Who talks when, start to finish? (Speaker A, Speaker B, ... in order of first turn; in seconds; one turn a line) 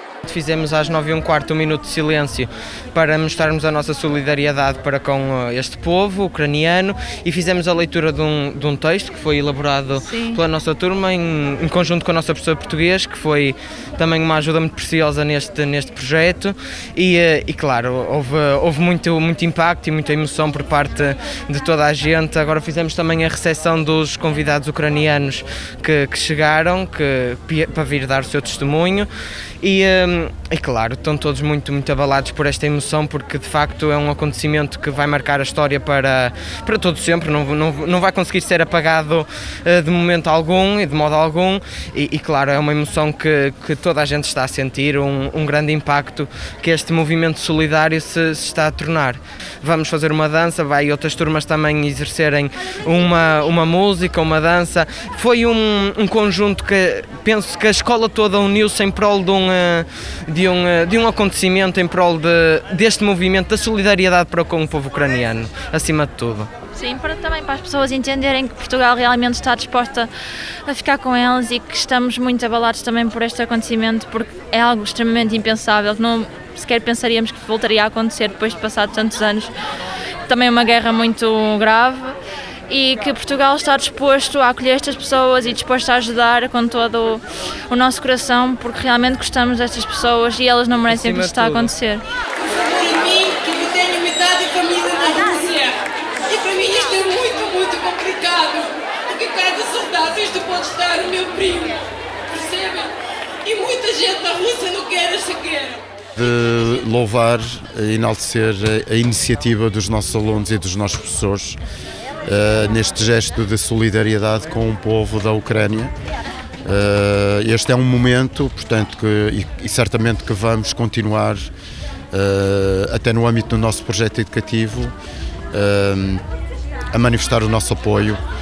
Speaker A: 0.2-29.1
Speaker B: 10.1-10.4
Speaker A: 29.6-66.5
Speaker B: 66.7-70.1
Speaker B: 70.7-79.5
Speaker B: 80.3-82.2
Speaker B: 82.7-92.0
Speaker A: 90.9-91.8
Speaker C: 92.4-102.9
Speaker C: 103.4-105.8
Speaker D: 106.2-111.6
Speaker D: 112.2-115.9
Speaker D: 116.7-121.5
Speaker D: 122.1-125.0
Speaker D: 125.5-126.2
Speaker D: 126.9-128.2